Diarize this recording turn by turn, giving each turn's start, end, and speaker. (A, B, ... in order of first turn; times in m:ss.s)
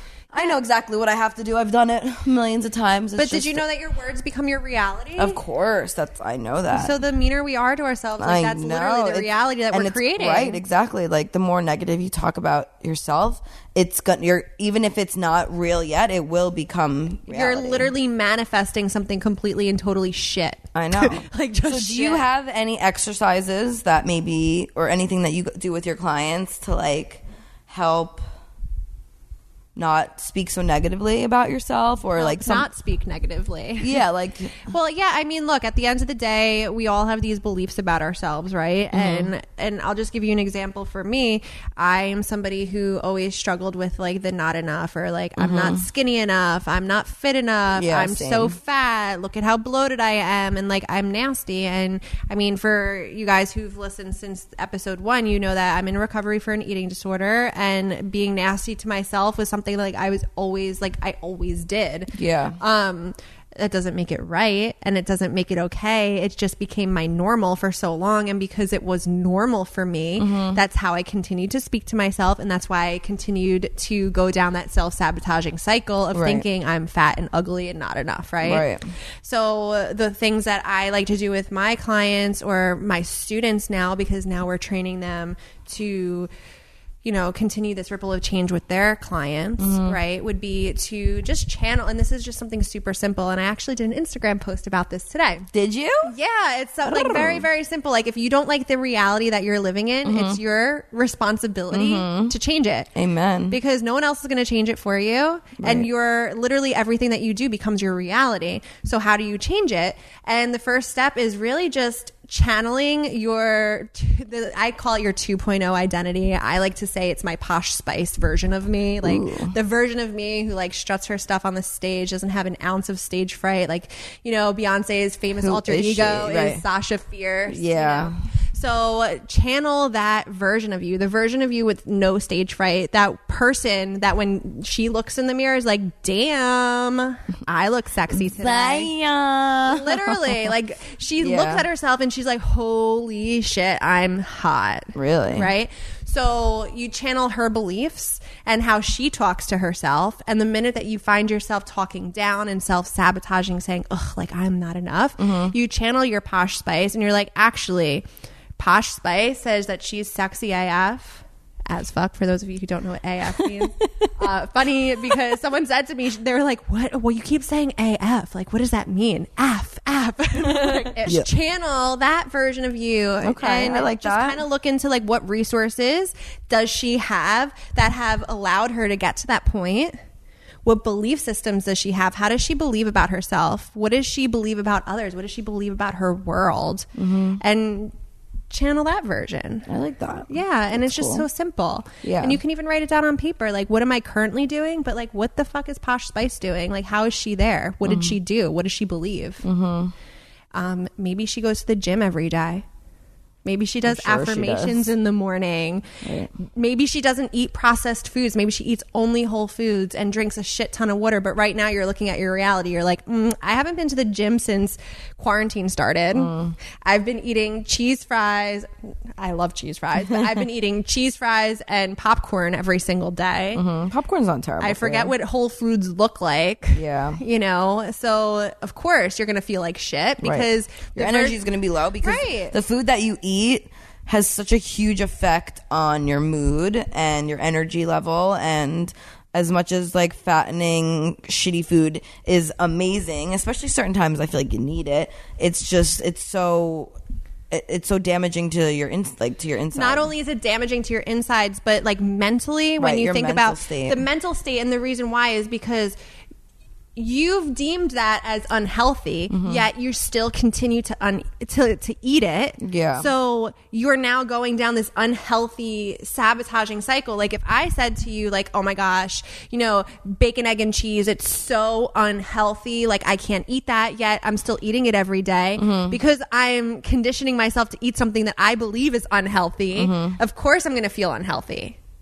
0:00.3-0:03.6 A
0:03.2-0:05.4 B
0:05.2-0:07.0 A
0:06.7-0:10.6 B
0:08.2-0:17.9 A
0:17.3-0:22.2 B
0:20.8-0:28.2 A
0:29.8-0:32.7 A
0:32.2-0:34.0 B
0:33.8-0:34.6 A
0:34.6-1:18.7 B
0:38.9-0:39.3 A
0:45.4-0:45.8 A
0:47.8-0:48.5 A
1:02.1-1:02.6 A
1:10.2-1:10.6 A
1:16.1-1:16.4 A
1:18.4-1:18.8 A
1:19.2-1:26.3 B
1:27.0-1:35.5 B
1:29.6-1:30.0 A
1:35.5-1:36.1 A
1:36.0-1:42.9 B
1:36.8-1:37.5 A
1:40.0-1:40.4 A
1:41.7-1:42.4 A
1:43.0-1:43.6 A
1:43.5-2:18.9 B
1:45.6-1:45.9 A
1:59.0-1:59.6 A
2:05.4-2:06.6 A
2:07.5-2:08.2 A
2:18.1-2:20.4 A
2:19.7-2:38.0 B
2:21.2-2:21.7 A
2:25.0-2:25.5 A
2:35.2-2:35.6 A
2:38.6-3:00.0 B
2:43.4-2:44.1 A
2:50.4-2:51.3 A
2:53.2-2:54.4 A
3:00.6-3:07.9 B
3:07.0-3:07.4 A
3:08.5-3:09.7 B
3:09.7-3:11.3 A
3:10.3-3:19.4 B
3:12.0-3:12.4 A
3:17.8-3:18.2 A
3:19.4-3:19.9 A
3:20.5-3:22.6 B
3:23.4-3:43.6 B
3:23.9-3:24.9 A
3:26.0-3:26.3 A
3:36.1-3:36.6 A
3:43.6-3:45.1 A
3:44.6-3:51.4 B
3:46.7-3:47.2 A
3:50.2-4:07.0 A
3:52.0-3:52.5 B
4:07.5-4:10.1 A
4:09.7-4:16.0 B
4:12.8-4:14.0 A
4:17.0-4:41.8 B
4:19.3-4:19.6 A
4:22.6-4:23.1 A
4:35.6-4:36.0 A
4:39.8-4:40.2 A